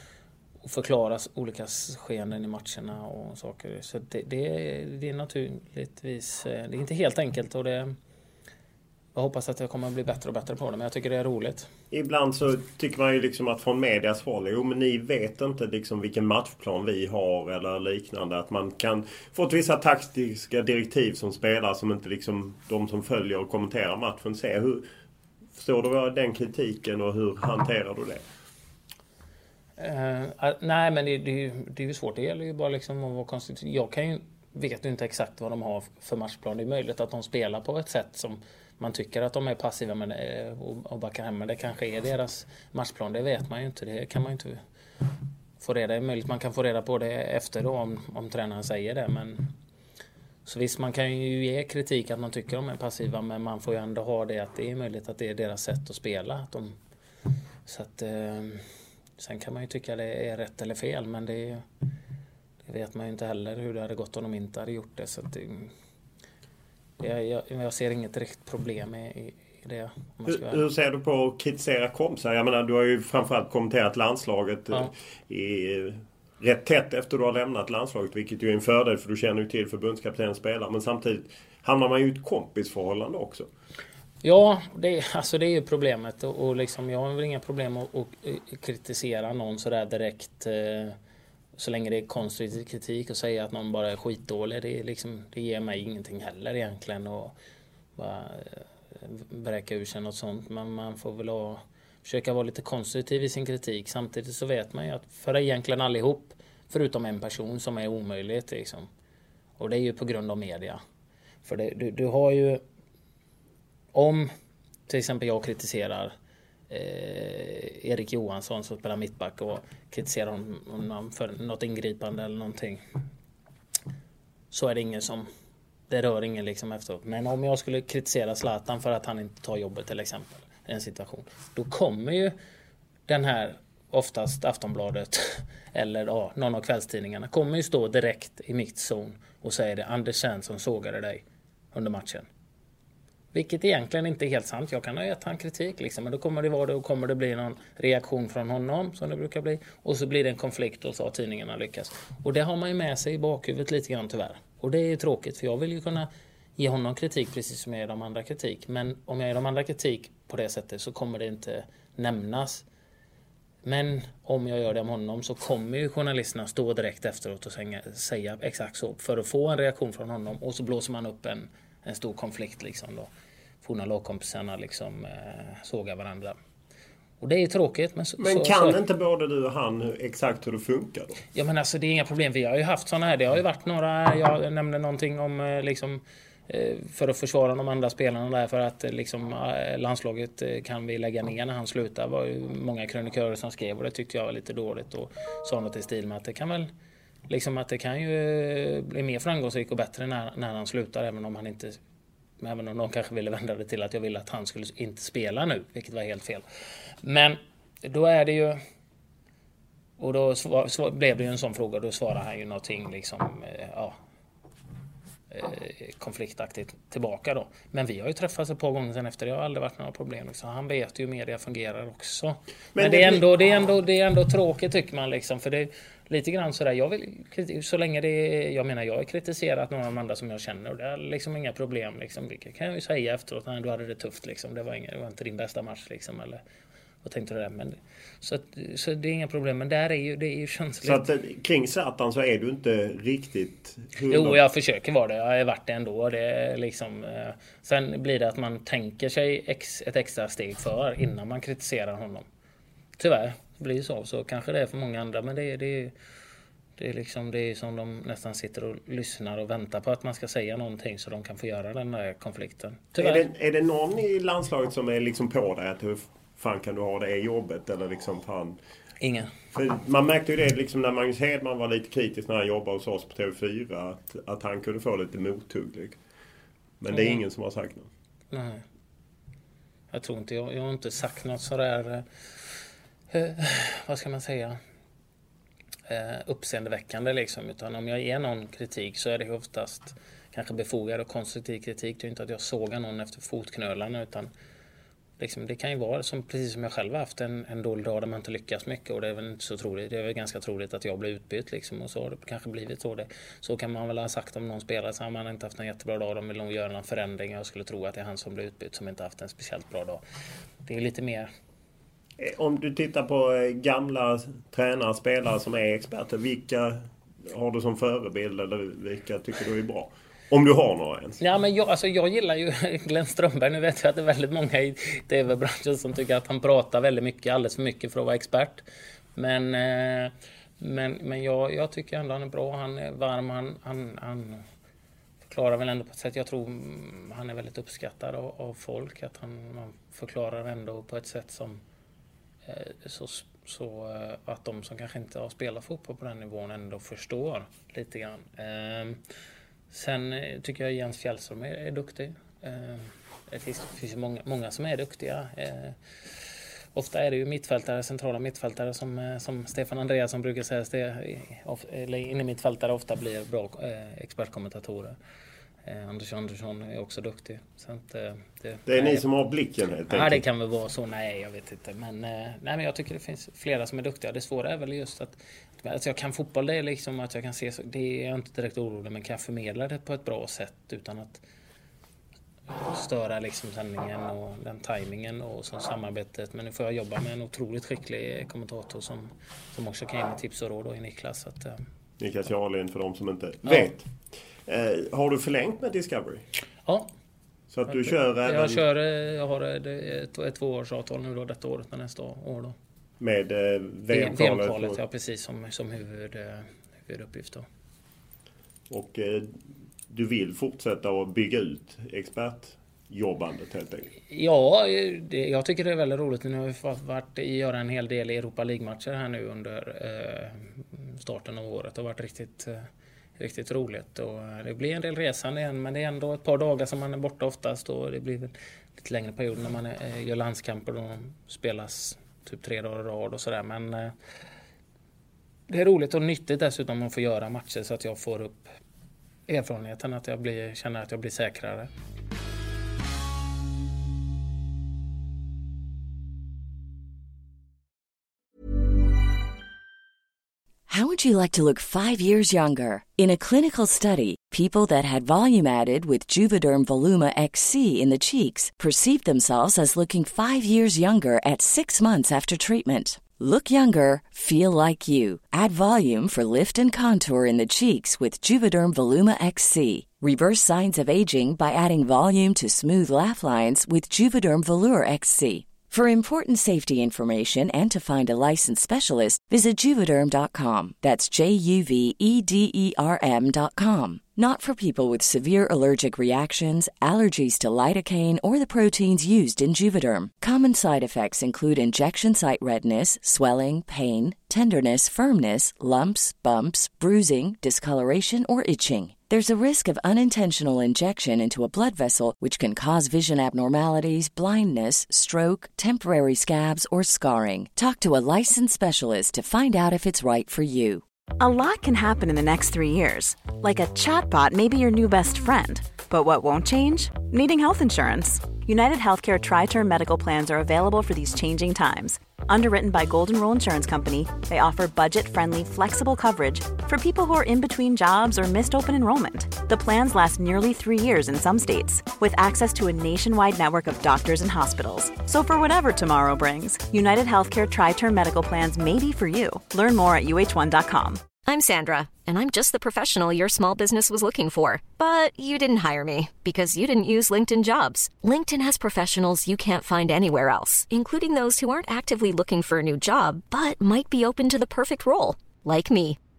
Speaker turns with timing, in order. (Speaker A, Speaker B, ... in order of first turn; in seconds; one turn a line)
Speaker A: 0.6-8.0
Speaker A: 9.1-11.7
Speaker B: 11.9-24.9
Speaker B: 25.6-28.2
Speaker A: 29.8-44.6
Speaker A: 45.6-49.5
Speaker A: 50.4-56.8
Speaker A: 57.6-61.6
Speaker A: 62.6-65.7
Speaker A: 67.0-70.6
Speaker B: 70.3-83.5
Speaker A: 84.2-91.0
Speaker A: 91.6-97.3
Speaker A: 98.0-108.9
Speaker A: 109.6-110.8
Speaker A: 111.4-112.6
Speaker A: 113.9-114.3
Speaker A: 114.9-116.1
Speaker A: 116.7-122.8
Speaker A: 124.5-125.3
Speaker A: 125.9-132.3
Speaker A: 133.1-142.3
Speaker A: 143.3-162.7
Speaker A: 163.6-173.1
Speaker A: 173.6-176.4
Speaker A: 177.2-178.8
Speaker B: 178.2-181.2
Speaker A: 181.3-196.7
Speaker A: 197.3-201.8
Speaker A: 202.4-206.4
Speaker A: 207.0-208.6
Speaker A: 210.0-214.0
Speaker A: 215.3-236.4
Speaker B: 222.8-223.2
Speaker A: 237.0-241.1
Speaker B: 240.8-244.4
Speaker A: 244.1-252.2
Speaker A: 253.0-255.9
Speaker A: 256.8-263.3
Speaker B: 263.0-268.6
Speaker A: 269.0-269.3
Speaker B: 269.5-276.0
Speaker B: 276.8-277.9
Speaker A: 276.9-277.2
Speaker A: 278.3-278.6
Speaker A: 279.9-282.0
Speaker A: 283.1-284.6
Speaker A: 285.9-294.3
Speaker A: 295.2-310.0
Speaker A: 310.6-311.3
Speaker B: 312.2-321.2
Speaker A: 321.2-328.6
Speaker A: 329.1-334.4
Speaker A: 335.2-341.6
Speaker A: 342.4-349.0
Speaker A: 349.7-355.8
Speaker A: 356.7-364.9
Speaker A: 365.6-369.0
Speaker B: 368.7-370.2
Speaker A: 369.9-381.2
Speaker A: 382.5-391.6
Speaker B: 392.0-393.9
Speaker B: 394.5-396.2
Speaker B: 397.5-398.6
Speaker A: 397.7-402.5
Speaker B: 403.0-404.8
Speaker A: 403.9-407.5
Speaker B: 408.7-409.3
Speaker B: 409.9-413.9
Speaker A: 414.1-422.7
Speaker A: 423.2-433.9
Speaker A: 435.5-438.5
Speaker A: 439.3-441.7
Speaker C: 450.7-510.8
Speaker D: 511.2-541.0
Speaker E: 541.2-556.0